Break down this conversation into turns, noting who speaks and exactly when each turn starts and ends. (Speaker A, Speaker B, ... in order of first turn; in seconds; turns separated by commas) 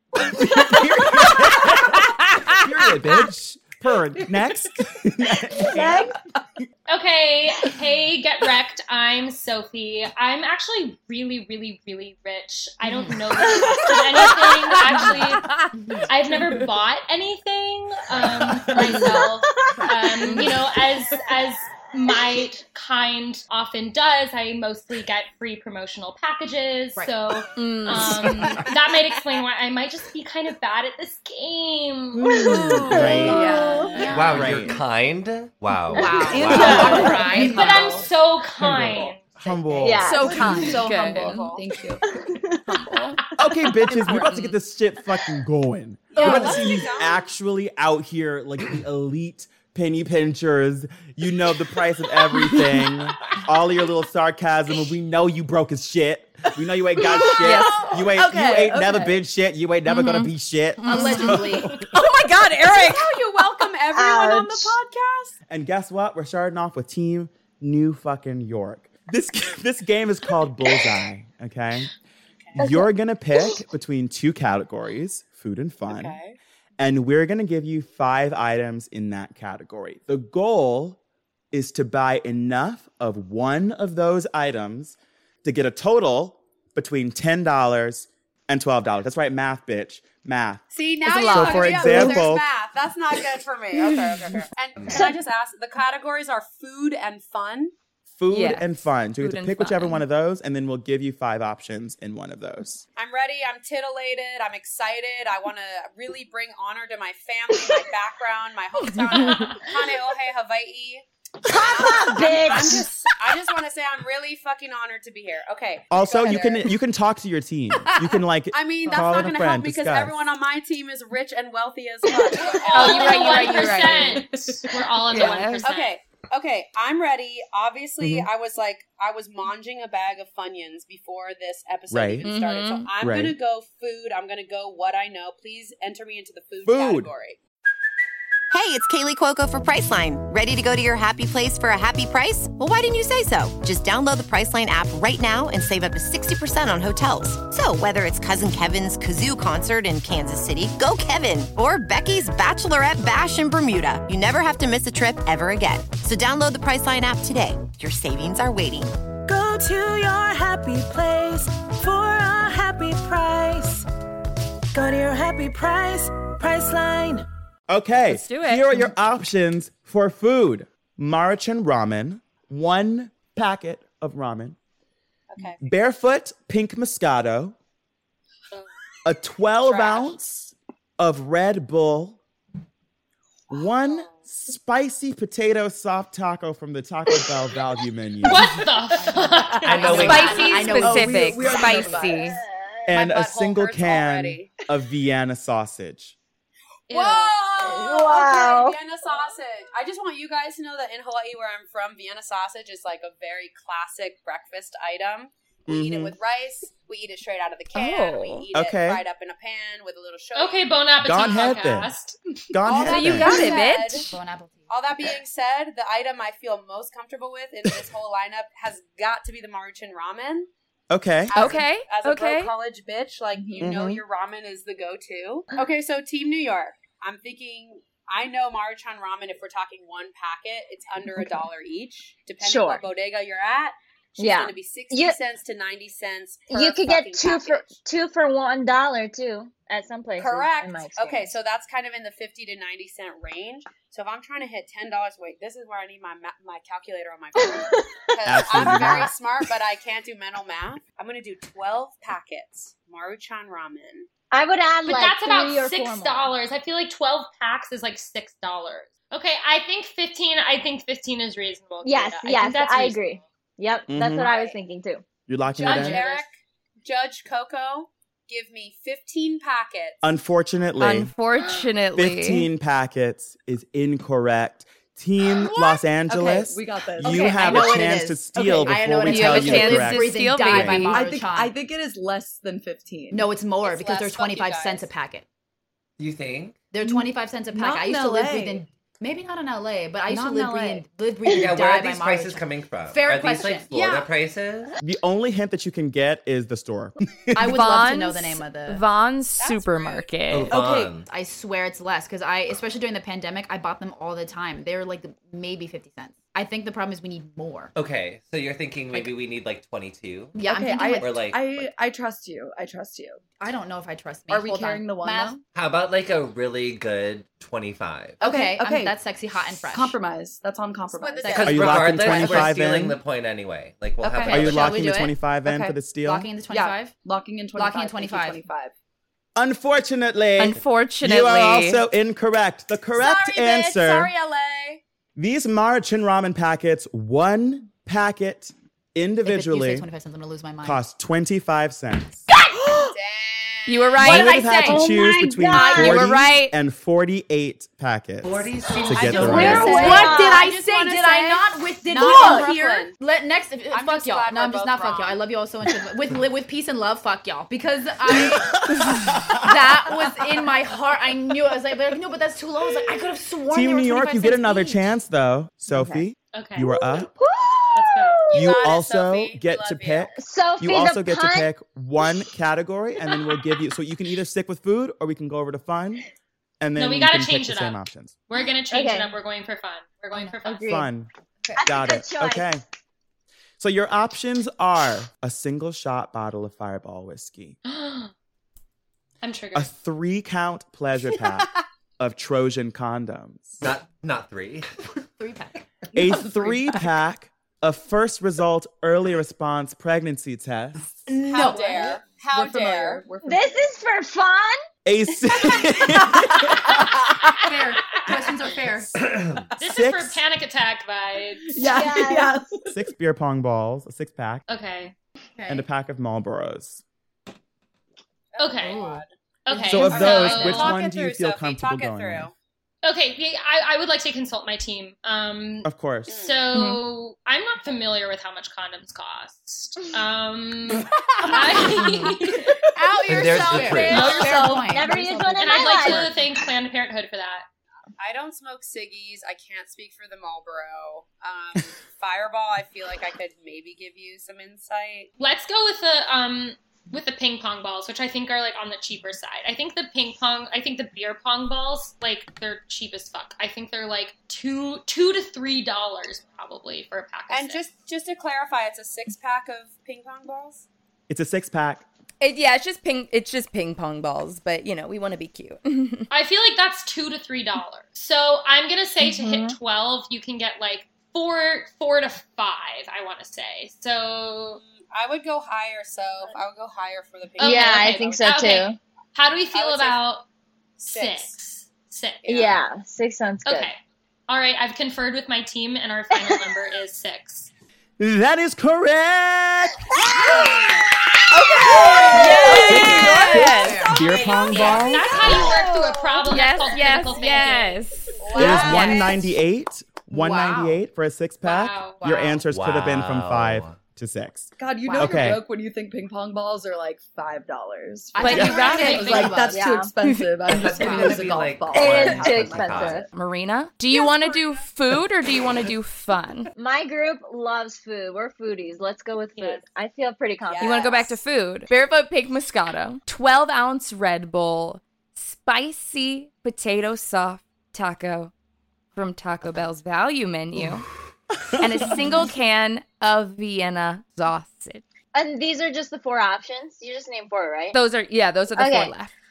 Speaker A: 0.2-6.6, Speaker B: 0.7-0.9, Speaker C: 1.6-2.6, Speaker B: 5.6-6.2, Speaker D: 6.9-32.9, Speaker B: 13.5-14.4, Speaker C: 14.8-15.7, Speaker E: 15.8-16.1, Speaker A: 18.4-18.8, Speaker B: 19.0-19.9, Speaker E: 19.8-20.4, Speaker C: 27.6-28.6, Speaker E: 28.2-28.5, Speaker C: 32.4-34.1, Speaker B: 32.4-34.1, Speaker A: 32.9-33.5, Speaker F: 33.0-33.3, Speaker E: 33.3-34.8, Speaker F: 34.0-37.5, Speaker A: 34.1-34.8, Speaker E: 35.9-38.1, Speaker G: 36.1-38.1, Speaker D: 36.5-39.2, Speaker B: 36.7-37.1, Speaker A: 38.6-40.3, Speaker E: 39.4-41.0, Speaker B: 39.8-40.7, Speaker C: 40.0-41.5, Speaker G: 40.2-42.0, Speaker H: 41.0-41.7, Speaker B: 42.1-42.6, Speaker C: 42.6-43.2, Speaker A: 43.4-61.9, Speaker C: 43.9-44.5, Speaker H: 46.1-47.2, Speaker C: 57.2-59.1, Speaker C: 59.9-63.1, Speaker E: 60.8-61.8, Speaker H: 62.6-65.3, Speaker B: 63.9-64.8, Speaker A: 65.5-71.9, Speaker A: 72.5-76.2, Speaker B: 72.6-73.6, Speaker H: 75.9-76.4, Speaker A: 76.8-81.0, Speaker A: 81.5-90.6, Speaker H: 90.7-97.7, Speaker C: 91.0-92.2, Speaker A: 91.2-92.5, Speaker F: 94.8-95.0, Speaker A: 98.1-102.8, Speaker C: 98.3-100.0, Speaker H: 103.0-116.7, Speaker C: 108.8-109.5, Speaker B: 111.5-112.9, Speaker C: 112.6-112.9, Speaker A: 115.9-120.2, Speaker H: 118.5-123.8, Speaker D: 122.6-126.0, Speaker C: 122.7-124.2, Speaker C: 125.1-125.7, Speaker H: 125.6-137.4, Speaker A: 128.0-128.3, Speaker A: 131.9-132.3, Speaker C: 132.2-132.9, Speaker A: 133.0-133.3, Speaker A: 136.6-137.1, Speaker I: 138.5-158.9, Speaker J: 159.2-163.8, Speaker J: 164.7-167.2, Speaker A: 167.7-174.6, Speaker C: 168.1-168.8, Speaker H: 175.3-175.6, Speaker A: 175.6-177.5, Speaker A: 179.0-182.2, Speaker H: 179.7-180.1, Speaker A: 183.5-188.6, Speaker H: 183.8-184.2, Speaker D: 188.2-190.6, Speaker E: 188.9-192.2, Speaker F: 189.6-190.7, Speaker C: 190.0-192.4, Speaker A: 190.1-191.8, Speaker G: 190.7-192.2, Speaker B: 192.2-192.9, Speaker A: 192.9-196.2, Speaker H: 192.9-194.5, Speaker D: 196.9-197.3, Speaker H: 196.9-211.7, Speaker B: 197.6-198.8, Speaker A: 205.7-206.2, Speaker C: 207.7-208.4, Speaker A: 208.5-209.0, Speaker D: 210.3-212.2, Speaker A: 211.0-211.9, Speaker A: 212.5-213.5, Speaker H: 212.6-214.1, Speaker C: 212.7-214.1, Speaker E: 213.4-214.7, Speaker H: 214.7-220.5, Speaker A: 220.9-221.3, Speaker H: 221.3-237.8, Speaker C: 221.3-222.5, Speaker G: 223.3-223.8, Speaker A: 223.6-224.0, Speaker B: 232.4-232.8, Speaker B: 234.2-235.2, Speaker B: 236.5-241.4, Speaker H: 240.2-254.1, Speaker B: 247.3-249.1, Speaker A: 248.2-249.1, Speaker B: 254.3-256.3, Speaker D: 254.8-263.1, Speaker B: 261.8-265.0, Speaker A: 263.9-264.3, Speaker H: 264.2-264.6, Speaker A: 265.3-266.0, Speaker H: 265.6-270.0, Speaker D: 265.6-266.2, Speaker A: 270.0-271.1, Speaker C: 270.8-272.5, Speaker A: 271.9-281.0, Speaker G: 276.1-277.7, Speaker E: 277.0-281.5, Speaker C: 279.1-281.0, Speaker G: 280.9-283.3, Speaker E: 283.1-285.2, Speaker H: 283.6-284.9, Speaker F: 286.0-286.6, Speaker E: 286.7-294.0, Speaker G: 286.8-288.6, Speaker G: 290.1-290.8, Speaker F: 291.3-294.8, Speaker A: 294.8-297.7, Speaker E: 297.3-298.8, Speaker C: 297.4-300.6, Speaker H: 299.4-300.2, Speaker F: 300.3-301.1, Speaker G: 300.5-300.9, Speaker E: 300.5-307.7, Speaker F: 307.7-310.4, Speaker E: 310.3-311.3, Speaker G: 310.4-313.2, Speaker F: 311.0-311.5, Speaker E: 313.4-315.4, Speaker G: 314.3-315.4, Speaker F: 315.5-318.2, Speaker E: 318.2-320.0, Speaker G: 318.2-322.5, Speaker H: 320.9-321.9, Speaker E: 321.2-321.7, Speaker F: 321.3-324.8, Speaker A: 321.4-323.0, Speaker G: 324.0-324.5, Speaker E: 324.2-325.3, Speaker A: 324.3-326.3, Speaker G: 325.4-325.8, Speaker E: 326.0-327.0, Speaker G: 326.5-328.7, Speaker E: 327.5-328.4, Speaker A: 329.3-334.1, Speaker C: 330.4-331.8, Speaker H: 332.9-334.8, Speaker A: 335.1-339.9, Speaker E: 339.2-340.8, Speaker A: 340.6-342.2, Speaker H: 342.8-344.3, Speaker C: 343.7-344.5, Speaker E: 344.0-346.0, Speaker A: 344.0-349.8, Speaker B: 344.6-346.0, Speaker C: 345.5-346.5, Speaker F: 348.2-349.9, Speaker H: 348.9-352.9, Speaker E: 349.2-364.8, Speaker B: 349.3-350.5, Speaker C: 349.8-350.1, Speaker G: 352.0-352.4, Speaker H: 353.7-355.2, Speaker A: 358.1-359.6, Speaker A: 363.5-367.1, Speaker D: 366.3-366.7, Speaker B: 366.7-368.7, Speaker D: 367.7-368.2, Speaker H: 368.3-370.2, Speaker A: 368.3-376.1, Speaker B: 370.1-371.5, Speaker A: 376.6-378.1, Speaker D: 376.7-380.8, Speaker B: 378.7-379.1, Speaker B: 380.4-380.9, Speaker A: 380.6-381.1, Speaker B: 381.5-382.5, Speaker A: 381.6-382.6, Speaker A: 383.6-387.6, Speaker D: 387.6-388.1, Speaker D: 389.2-389.7, Speaker A: 389.5-393.6, Speaker F: 393.6-394.7, Speaker E: 395.0-395.6, Speaker A: 395.9-401.1, Speaker G: 396.0-396.7, Speaker E: 401.1-402.0, Speaker H: 401.3-403.0, Speaker G: 401.4-403.5, Speaker B: 403.2-404.6, Speaker A: 404.8-406.8, Speaker E: 407.4-409.0, Speaker F: 409.0-409.5, Speaker D: 409.6-411.6, Speaker A: 409.6-410.2, Speaker G: 411.6-412.8, Speaker B: 411.6-412.4, Speaker A: 412.7-414.4, Speaker D: 414.5-414.9, Speaker E: 415.4-415.6, Speaker A: 415.5-416.8, Speaker H: 418.3-422.3, Speaker D: 418.4-418.8, Speaker E: 418.7-419.0, Speaker D: 419.4-420.8, Speaker A: 419.6-422.3, Speaker D: 422.8-432.5, Speaker A: 425.6-426.1, Speaker H: 426.1-426.4, Speaker C: 426.5-426.8, Speaker H: 431.2-431.6, Speaker E: 431.3-432.1, Speaker H: 432.7-434.3, Speaker F: 433.1-434.2, Speaker E: 433.1-436.1, Speaker D: 433.9-434.2, Speaker G: 434.1-434.8, Speaker B: 434.1-436.2, Speaker D: 435.4-437.4, Speaker H: 438.0-445.1, Speaker D: 445.2-457.6, Speaker H: 457.3-460.6, Speaker A: 461.1-461.9, Speaker C: 462.2-466.1, Speaker D: 466.1-474.6, Speaker B: 469.0-469.6, Speaker H: 474.6-478.2, Speaker B: 477.4-478.8, Speaker D: 477.4-480.2, Speaker H: 479.5-480.0, Speaker H: 480.8-481.4, Speaker D: 480.8-482.5, Speaker H: 482.2-482.5, Speaker B: 482.2-483.7, Speaker D: 483.4-487.5, Speaker A: 488.0-489.9, Speaker B: 489.9-493.2, Speaker E: 491.6-494.2, Speaker C: 492.0-493.8, Speaker A: 492.0-495.3, Speaker H: 494.1-494.5, Speaker D: 494.3-497.8, Speaker B: 494.5-496.3, Speaker E: 495.3-495.7, Speaker C: 496.3-498.9, Speaker H: 498.2-499.2, Speaker B: 498.3-498.7, Speaker A: 498.3-505.4, Speaker E: 498.4-498.9, Speaker E: 500.1-500.8, Speaker D: 501.4-502.0, Speaker E: 502.0-502.4, Speaker F: 502.4-503.8, Speaker G: 504.6-513.1, Speaker E: 504.8-505.4, Speaker E: 508.1-509.7, Speaker C: 508.2-509.3, Speaker A: 508.3-508.6, Speaker D: 508.5-509.4, Speaker B: 509.4-509.9, Speaker F: 510.4-513.0, Speaker E: 510.6-511.3, Speaker B: 511.7-513.1, Speaker C: 513.1-516.5, Speaker H: 513.9-514.6, Speaker B: 516.5-521.2, Speaker D: 519.3-519.6, Speaker H: 520.4-521.1, Speaker C: 520.6-528.3, Speaker C: 528.9-530.9, Speaker C: 531.5-534.8, Speaker B: 535.1-537.8, Speaker C: 537.7-539.1, Speaker B: 538.5-538.9